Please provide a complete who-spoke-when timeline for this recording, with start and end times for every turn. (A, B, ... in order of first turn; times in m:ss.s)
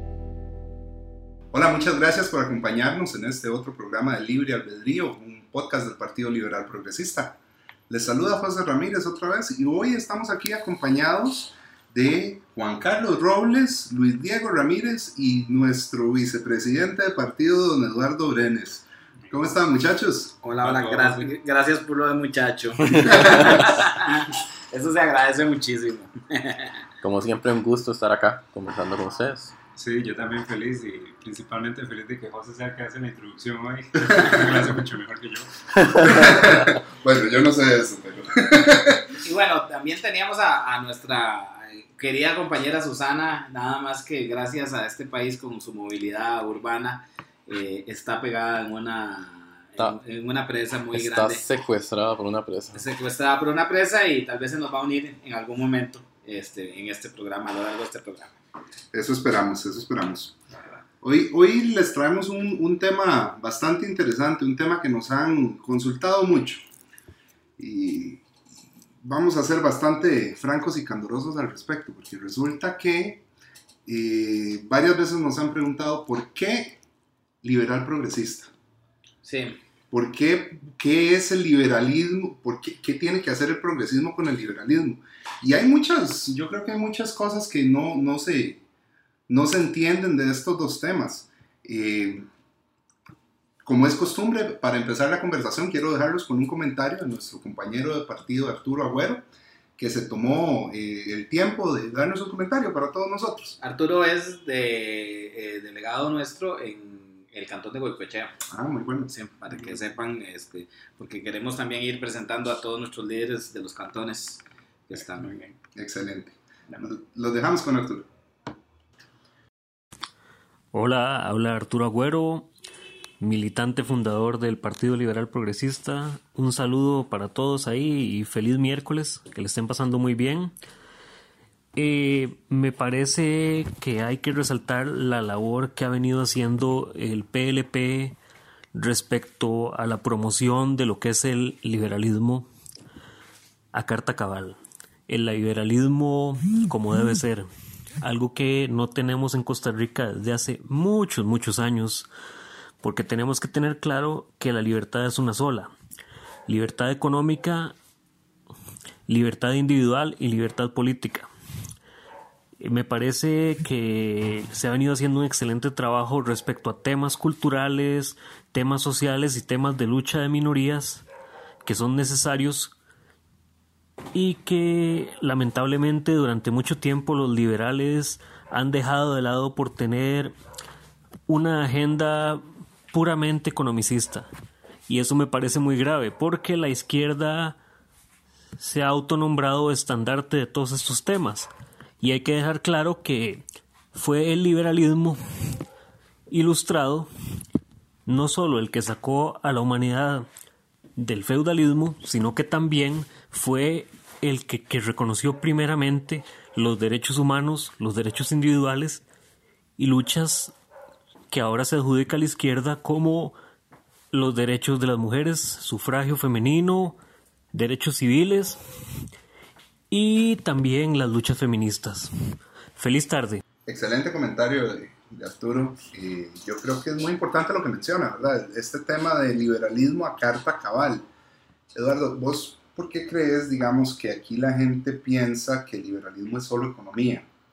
0:01.5-0:20.3 A
0:20.4-0:26.7 B
0:20.6-0:21.3 C
0:23.0-0:23.7 D
0:27.0-0:29.5 D
0:29.8-0:35.5 C
0:34.0-0:34.6 A
0:36.0-0:39.1 A
0:39.2-0:51.4 B
0:50.9-0:52.8 D
0:52.7-0:58.3 B
0:58.9-1:00.4 A
1:01.0-1:06.6 A
1:07.6-1:08.2 A
1:09.0-1:13.2 A
1:13.8-1:16.8 A
1:17.4-1:18.5 A
1:19.2-1:19.6 B
1:19.9-1:28.6 A
1:29.3-1:32.3 A
1:33.6-1:39.2 A
1:39.8-1:43.6 A
1:43.6-1:48.4 B
1:48.5-1:49.1 A
1:49.1-1:55.5 B
1:55.7-1:58.1 A
2:00.7-2:02.5 E
2:03.2-2:10.5 E
2:11.8-2:18.2 E
2:18.7-2:22.5 E
2:23.7-2:27.4 E
2:28.0-2:32.1 E
2:32.8-2:35.7 E
2:36.5-2:37.7 E
2:39.1-2:41.3 E
2:42.6-2:51.0 E
2:51.6-2:52.7 E
2:54.1-3:00.3 E
3:01.3-3:04.3 E
3:04.9-3:07.6 E
3:08.6-3:11.5 E
3:12.0-3:13.4 E
3:13.9-3:15.5 E
3:16.3-3:17.1 E
3:18.0-3:20.2 E
3:21.0-3:29.0 E
3:29.8-3:30.5 E
3:31.3-3:33.4 E
3:34.1-3:37.0 E
3:37.5-3:38.6 E
3:39.9-3:42.1 E
3:42.8-3:43.4 E
3:43.6-3:51.0 A
3:51.7-3:57.2 A